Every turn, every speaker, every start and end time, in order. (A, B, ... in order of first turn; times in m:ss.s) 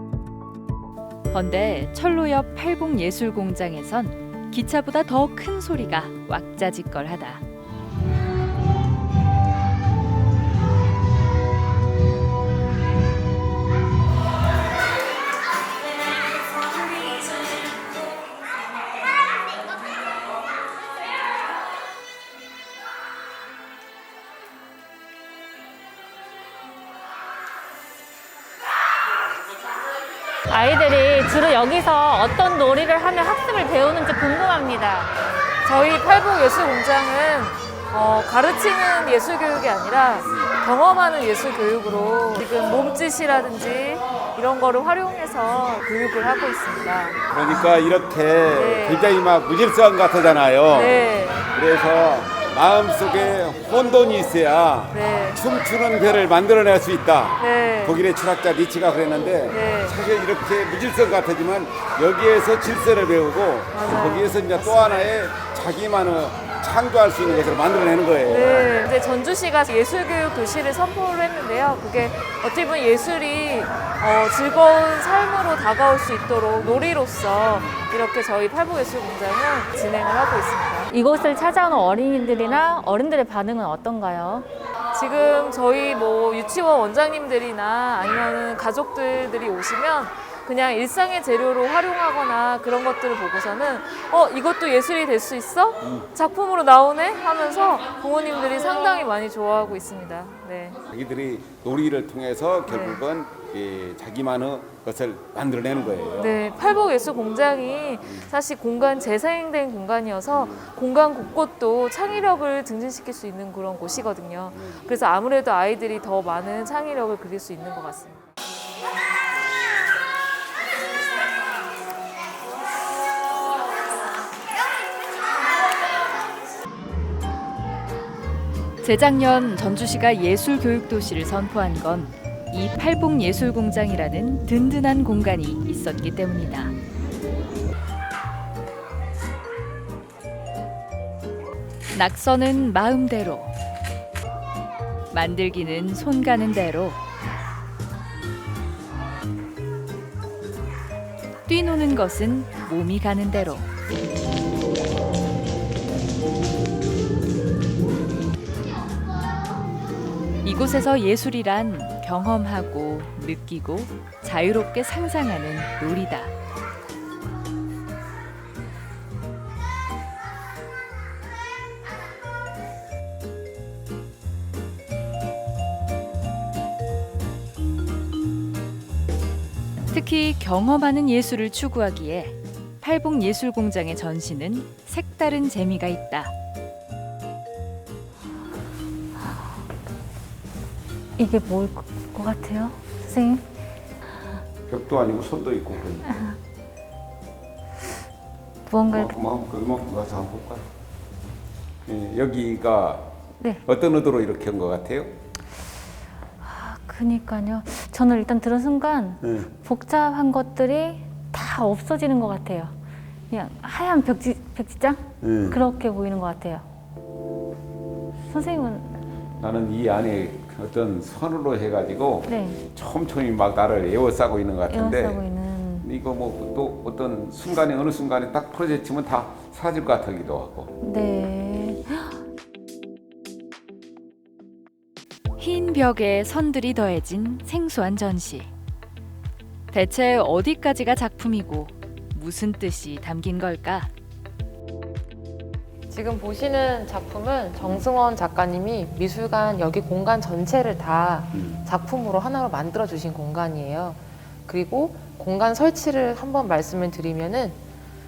0:01.3-0:07.4 A
0:30.5-0:35.1 B
0:35.6-0:47.2 C
0:47.3-1:08.8 D
0:48.5-0:49.0 C
0:50.7-0:51.5 C
0:54.9-0:55.4 C
0:57.4-0:58.0 C
0:59.5-1:00.0 C
1:03.7-1:05.1 C
1:08.3-1:20.9 C
1:16.6-1:17.0 D
1:17.5-1:17.8 D
1:20.9-1:24.5 B
1:24.9-1:40.8 C
1:35.8-1:36.1 D
1:40.9-1:46.5 D
1:42.7-1:43.0 C
1:46.2-1:58.3 C
1:48.0-1:48.3 D
1:50.3-1:50.7 D
1:54.5-1:54.8 D
2:08.8-2:16.7 A
2:21.9-2:23.5 A
2:25.1-2:27.0 A
2:31.5-2:33.7 A
2:40.4-2:46.3 A
2:59.9-3:06.3 A
3:11.2-3:13.4 B
3:14.7-3:16.3 D
3:16.1-3:16.4 B
3:18.7-3:19.1 B
3:18.9-3:20.7 D
3:21.9-3:25.2 D
3:26.4-3:32.7 B
3:29.2-3:29.5 D
3:33.3-3:36.6 B
3:35.2-3:35.6 D
3:38.3-3:39.0 B
3:39.4-3:45.2 D
3:42.3-3:42.6 B
3:44.7-3:45.9 B
3:45.8-3:50.7 D
3:50.8-3:52.2 B
3:55.4-3:58.5 A
3:59.7-4:03.9 A
4:05.9-4:17.6 E
4:11.4-4:11.6 D